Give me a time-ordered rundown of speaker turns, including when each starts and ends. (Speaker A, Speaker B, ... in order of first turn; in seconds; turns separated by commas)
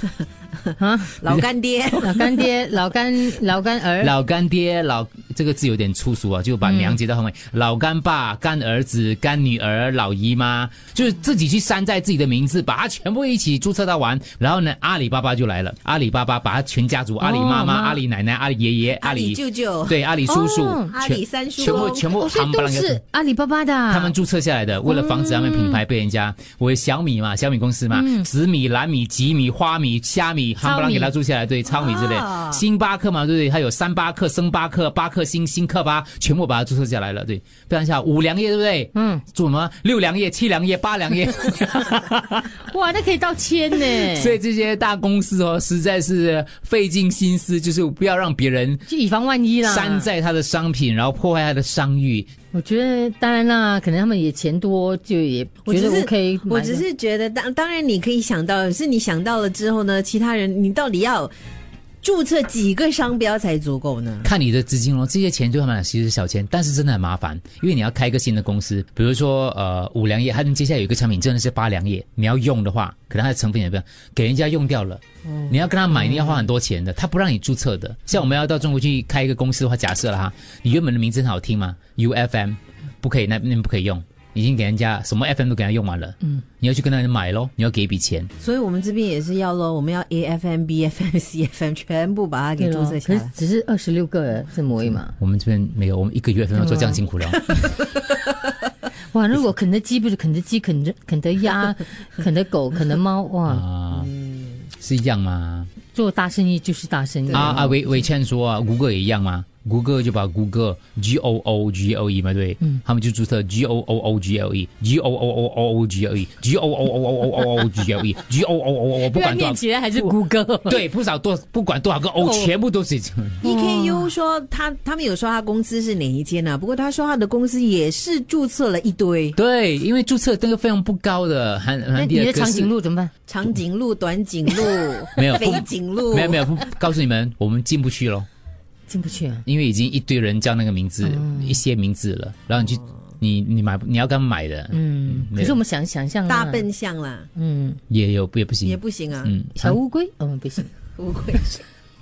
Speaker A: 0.8-1.3, Speaker B: 1.1-2.5, Speaker A: 1.9-4.1, Speaker C: 4.0-23.0, Speaker A: 6.6-7.0, Speaker A: 17.2-18.0, Speaker B: 19.0-20.0, Speaker A: 20.3-21.0, Speaker B: 20.9-22.2, Speaker A: 21.6-24.1, Speaker C: 23.9-42.5, Speaker A: 24.9-25.8, Speaker A: 27.9-28.3, Speaker A: 30.6-31.1, Speaker B: 31.7-32.6, Speaker A: 39.0-39.2, Speaker A: 42.5-44.4, Speaker C: 43.8-48.9, Speaker A: 48.9-50.1, Speaker C: 49.6-52.3, Speaker A: 52.5-56.8, Speaker B: 55.6-61.3, Speaker B: 62.0-64.3, Speaker C: 64.2-88.3, Speaker B: 88.4-93.3, Speaker A: 92.6-95.1, Speaker C: 95.2-97.7, Speaker A: 96.6-97.0, Speaker A: 99.1-103.6, Speaker C: 103.5-104.1, Speaker B: 104.0-104.6, Speaker C: 104.8-105.7, Speaker A: 105.9-107.9, Speaker B: 107.3-107.7, Speaker C: 107.3-120.2, Speaker A: 119.0-120.8, Speaker C: 120.7-123.4, Speaker A: 122.2-122.5, Speaker B: 123.4-129.4, Speaker A: 123.4-124.1, Speaker C: 129.3-132.7, Speaker A: 131.9-133.1, Speaker B: 133.3-136.5, Speaker C: 135.2-138.3, Speaker A: 138.9-139.4, Speaker C: 139.5-145.6, Speaker A: 141.0-141.6, Speaker A: 144.7-146.7, Speaker B: 146.3-147.3, Speaker A: 147.4-147.8, Speaker C: 147.9-149.8, Speaker B: 148.7-149.3, Speaker A: 149.6-150.7, Speaker B: 151.0-151.7